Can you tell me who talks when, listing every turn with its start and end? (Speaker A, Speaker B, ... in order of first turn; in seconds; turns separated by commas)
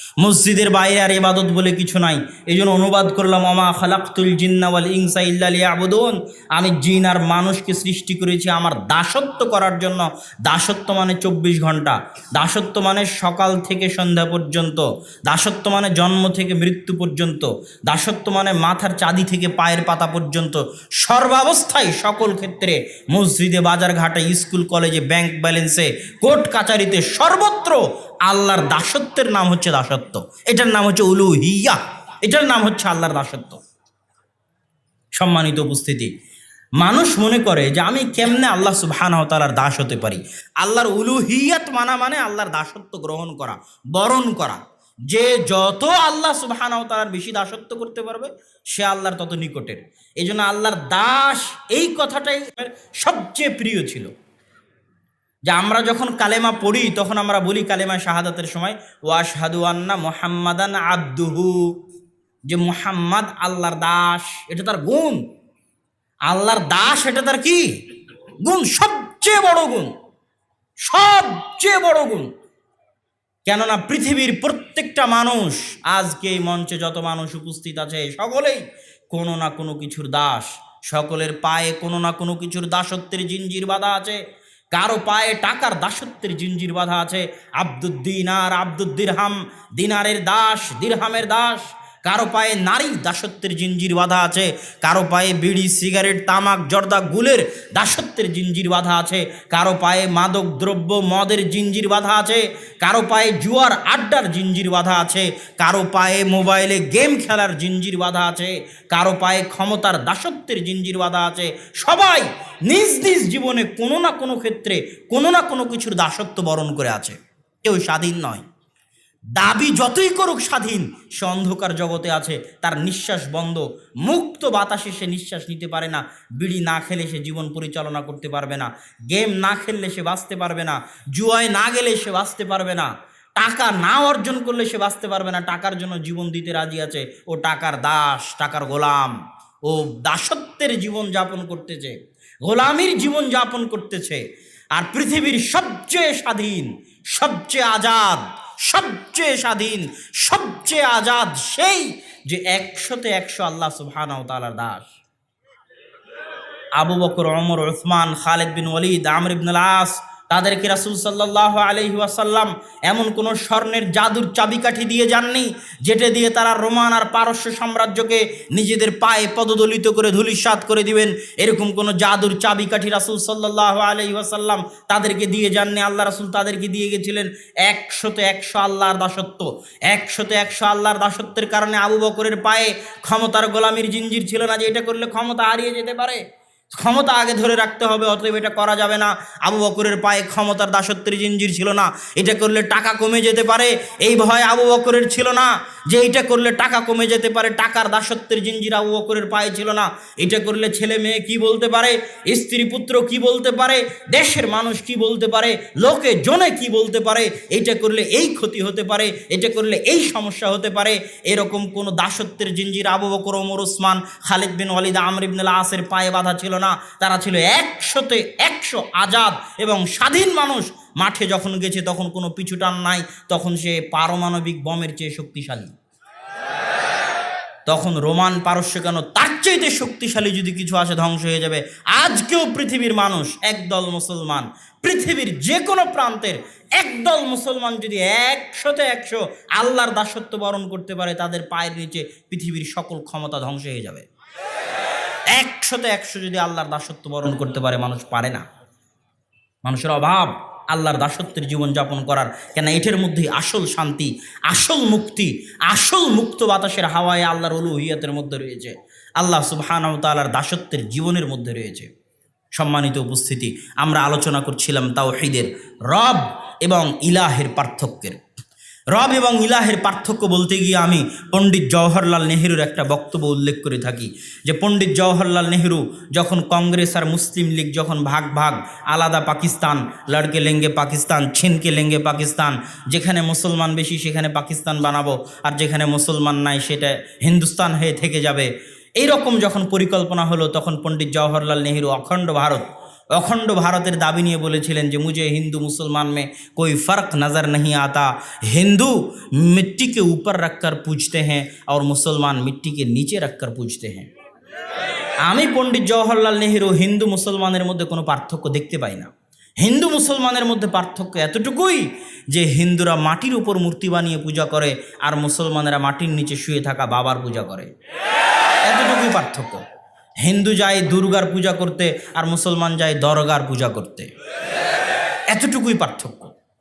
Speaker A: 0.2-33.6, Speaker A: 35.2-36.1, Speaker A: 36.8-54.1, Speaker A: 55.5-61.7, Speaker A: 62.5-65.2, Speaker A: 66.3-67.8, Speaker A: 68.4-69.9, Speaker A: 70.8-72.3, Speaker A: 73.5-118.4, Speaker A: 119.3-144.2, Speaker A: 144.8-154.9, Speaker A: 156.8-225.8, Speaker A: 227.7-244.1, Speaker A: 245.3-248.4, Speaker A: 249.6-261.9, Speaker A: 262.6-268.2, Speaker A: 268.9-304.1, Speaker A: 305.2-317.7, Speaker A: 318.6-319.6, Speaker A: 320.2-324.1, Speaker A: 325.3-326.3